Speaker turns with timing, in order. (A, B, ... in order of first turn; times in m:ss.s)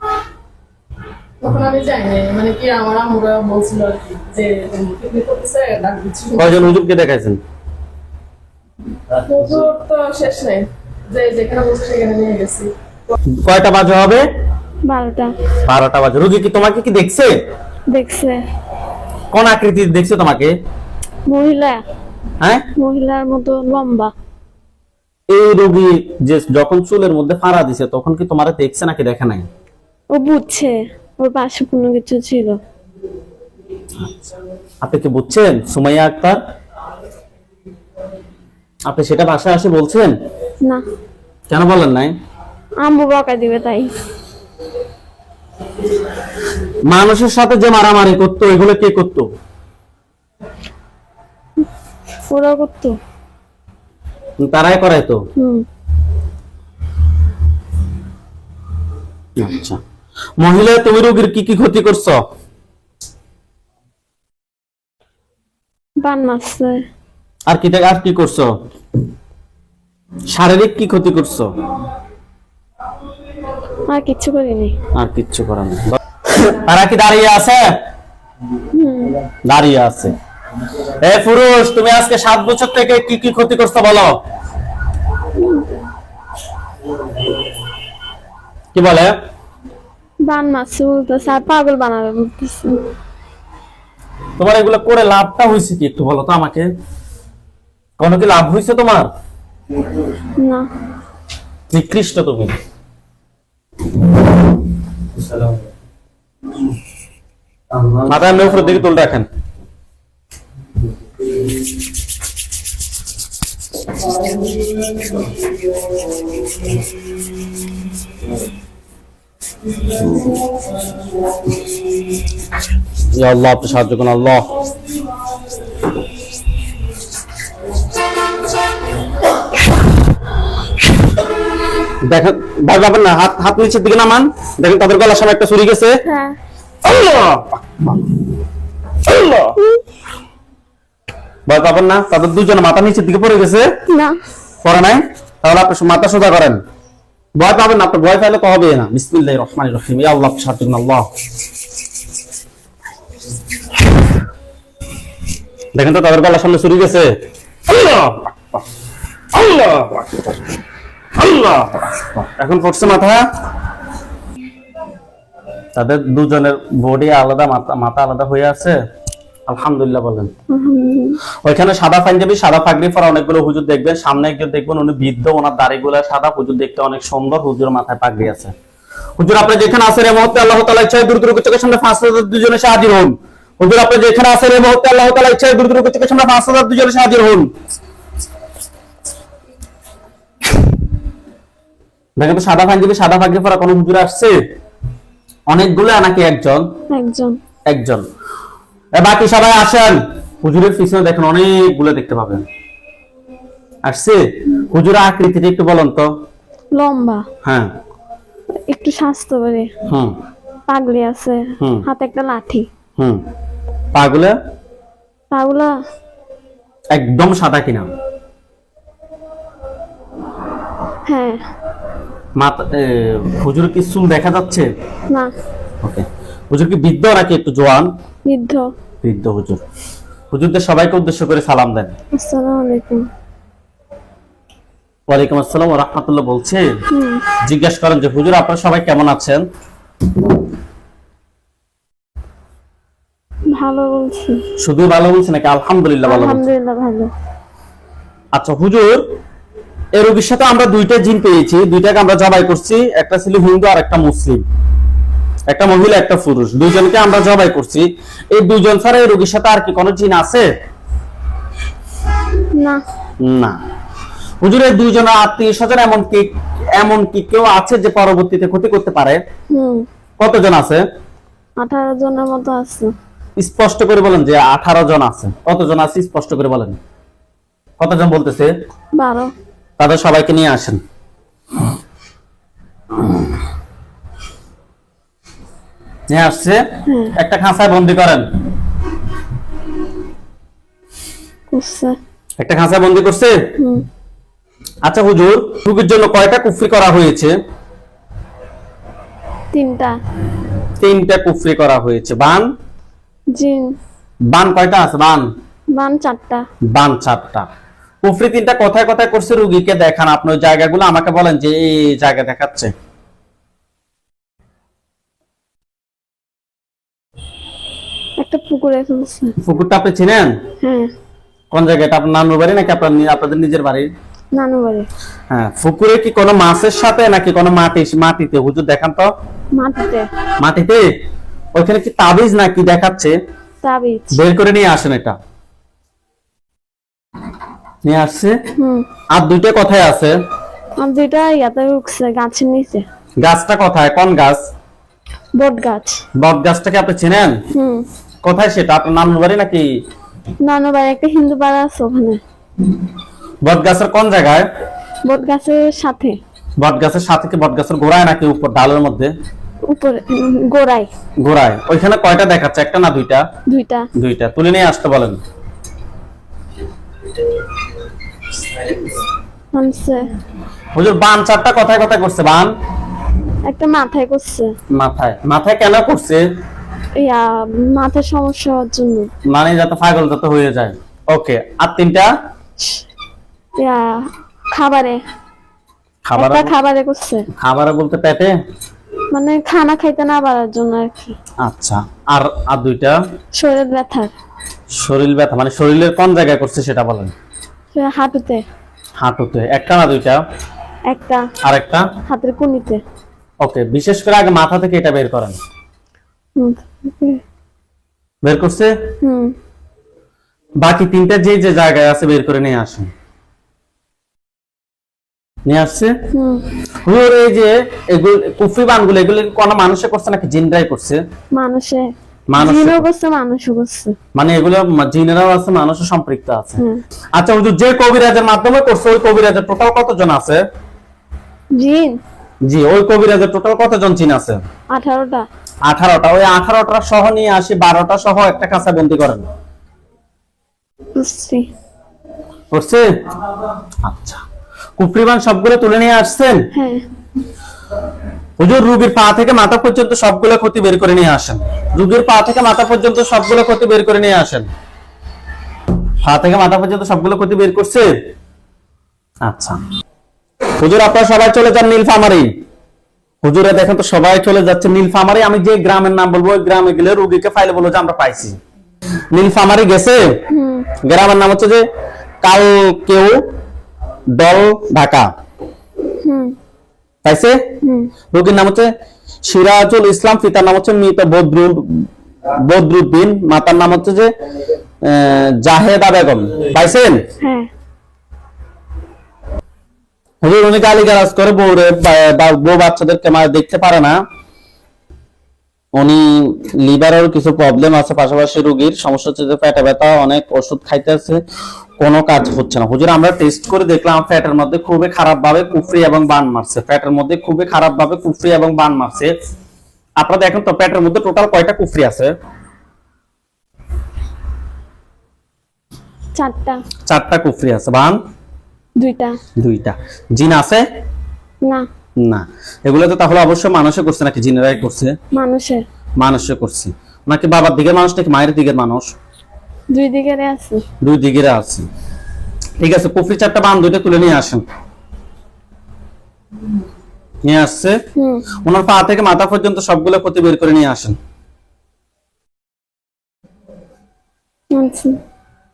0:01.4-0:06.7 A
0:06.4-0:07.4 B
0:09.3-0:12.7 A
0:13.4-0:14.2 B
0:14.8-0:15.3 C
0:15.6-0:17.3 B
0:17.9-0:18.4 C
0:19.3-0:20.5 B
0:21.3-0:21.8 C
0:22.8-0:24.1 C
0:25.3-0:29.5 B
0:30.2-0:32.6 C
0:34.0-0:34.3 B
0:34.8-0:36.4 B
0:38.9-0:40.1 B
0:41.5-0:42.1 B
0:42.8-0:43.9 C
0:46.9-0:49.3 B
0:52.3-0:53.0 C
0:54.4-0:55.2 B
0:55.4-0:55.6 C
0:59.4-0:59.8 B
1:00.4-1:02.2 B
1:06.0-1:06.9 C
1:07.5-1:08.5 B
1:10.3-1:11.5 B
1:13.9-1:14.8 C
1:15.0-1:17.7 B
1:18.8-1:19.2 C
1:19.4-1:20.1 B
1:21.0-1:24.1 B
1:25.4-1:25.7 C
1:28.7-1:29.1 B
1:30.2-1:32.8 C
1:34.4-1:36.7 B
1:38.0-1:39.1 B
1:40.4-1:40.7 C
1:41.7-1:42.5 B
1:48.1-1:49.3 B
2:03.1-2:04.6 B
2:12.1-2:16.0 B
2:16.1-2:16.4 C
2:16.8-2:18.1 B
2:19.1-2:19.6 B
2:21.5-2:23.7 B
2:23.9-2:24.2 C
2:24.6-2:26.6 B
2:27.4-2:31.1 B
2:35.8-2:37.1 B
2:37.7-2:38.6 B
2:39.3-2:40.3 B
2:41.2-2:43.2 B
2:45.8-2:48.8 B
2:49.5-2:50.3 B
2:50.5-2:51.2 C
2:51.4-2:58.5 B
2:59.2-3:07.5 B
3:12.2-3:14.3 B
3:15.5-3:16.7 B
3:16.9-3:17.4 C
3:17.7-3:18.0 B
3:19.0-3:22.4 B
3:23.8-3:26.1 B
3:26.8-3:27.3 C
3:27.4-3:27.7 B
3:28.7-3:29.7 C
3:29.9-3:30.1 B
3:30.7-3:32.7 C
3:33.9-3:34.4 B
3:35.3-3:35.7 C
3:36.9-3:37.9 B
3:41.1-3:41.4 C
3:42.4-3:44.7 B
3:45.8-3:47.9 B
3:48.3-3:48.7 C
3:49.0-3:49.6 B
3:50.3-3:51.9 B
3:52.1-3:53.0 C
3:55.1-3:56.7 B
3:56.9-3:57.2 C
3:57.4-3:59.4 B
4:03.5-4:04.4 C
4:04.6-4:06.4 B
4:06.0-4:07.1 C
4:08.3-4:09.0 B
4:10.0-4:14.4 B
4:15.5-4:20.5 B
4:22.6-4:22.8 C
4:23.2-4:23.6 B
4:24.4-4:29.2 B
4:29.5-4:29.9 C
4:30.2-4:30.8 B
4:31.6-4:32.9 C
4:33.4-4:36.8 B
4:37.8-4:38.5 B
4:39.0-4:39.3 C
4:39.8-4:40.8 B
4:46.1-4:46.6 B
4:46.9-4:47.1 C
4:47.2-4:48.2 B
4:51.5-4:52.0 C
4:52.4-4:53.4 B
4:53.6-4:53.8 C
4:54.8-4:57.4 B
4:59.5-5:00.0 C
5:00.8-5:02.5 B
5:03.3-5:03.7 C
5:04.3-5:05.3 B
5:05.8-5:06.4 C
5:06.7-5:07.5 B
5:08.0-5:12.7 B
5:18.2-5:19.4 C
5:19.4-5:20.3 B
5:20.6-5:20.9 C
5:21.5-5:23.9 B
5:24.4-5:24.9 C
5:25.3-5:29.1 B
5:29.6-5:30.1 C
5:30.4-5:30.8 B
5:31.6-5:33.2 B
5:33.6-5:34.1 C
5:34.1-5:35.2 B
5:37.8-5:38.4 B
5:38.6-5:38.9 C
5:39.1-5:40.2 B
5:40.8-5:42.9 C
5:43.2-5:44.4 B
5:45.4-5:46.0 C
5:46.2-5:47.4 B
5:47.6-5:47.8 C
5:48.2-5:49.7 B
5:50.5-5:52.2 C
5:53.4-5:54.5 B
5:55.0-5:56.2 C
5:56.6-5:59.1 B
5:59.7-6:00.9 C
6:01.2-6:03.2 B
6:03.5-6:03.9 C
6:04.0-6:05.2 B
6:09.5-6:10.1 C
6:10.7-6:12.5 B
6:13.5-6:14.5 C
6:14.7-6:16.2 B
6:17.0-6:19.1 C
6:19.3-6:22.1 B
6:23.6-6:25.0 C
6:26.1-6:26.5 B
6:26.2-6:27.2 C
6:27.4-6:28.3 B
6:29.1-6:31.2 C
6:31.4-6:33.0 B
6:33.4-6:34.1 C
6:34.8-6:37.1 B
6:37.7-6:38.4 C
6:39.0-6:40.2 B
6:40.9-6:41.2 C
6:41.4-6:41.9 B
6:42.1-6:42.8 C
6:43.4-6:45.4 B
6:46.4-6:47.2 C
6:48.2-6:48.7 B
6:49.0-6:49.3 C
6:50.6-6:52.9 B
6:55.5-6:55.9 B
6:56.1-6:56.5 C
6:56.8-7:01.0 B
7:01.3-7:01.8 C
7:02.3-7:02.8 B
7:02.4-7:04.0 C
7:04.2-7:06.6 B
7:07.2-7:10.4 B
7:11.6-7:12.0 C
7:12.5-7:14.4 B
7:14.7-7:15.3 C
7:15.7-7:19.2 B
7:21.0-7:21.5 C
7:22.5-7:22.8 B
7:23.8-7:24.2 B
7:24.8-7:26.4 B
7:26.5-7:26.8 C
7:28.4-7:34.5 B
7:36.0-7:37.9 B
7:39.2-7:39.6 B
7:40.6-7:42.3 B
7:43.2-7:48.4 B
7:49.1-7:50.0 B
7:50.3-7:50.7 C
7:50.9-7:51.7 B
7:52.2-7:53.2 B
7:54.1-7:55.1 B
7:56.0-7:56.3 C
7:57.0-7:57.4 B
7:57.6-7:57.9 C
7:58.1-7:58.7 B
7:59.2-8:01.9 B
8:02.4-8:04.1 B
8:04.8-8:07.0 B
8:07.2-8:07.5 C
8:10.2-8:14.0 B
8:15.8-8:21.2 B
8:21.8-8:29.1 B
8:30.0-8:32.1 B
8:36.2-8:36.6 C
8:36.9-8:38.0 B
8:38.8-8:39.2 C
8:39.4-8:40.6 B
8:42.0-8:45.0 B
8:45.2-8:45.6 C
8:46.0-8:48.9 B
8:49.7-8:50.6 C
8:50.8-8:51.7 B
8:52.6-8:54.4 B
8:57.3-8:57.8 B
8:58.0-8:58.2 C
8:58.4-9:01.0 B
9:04.5-9:05.0 C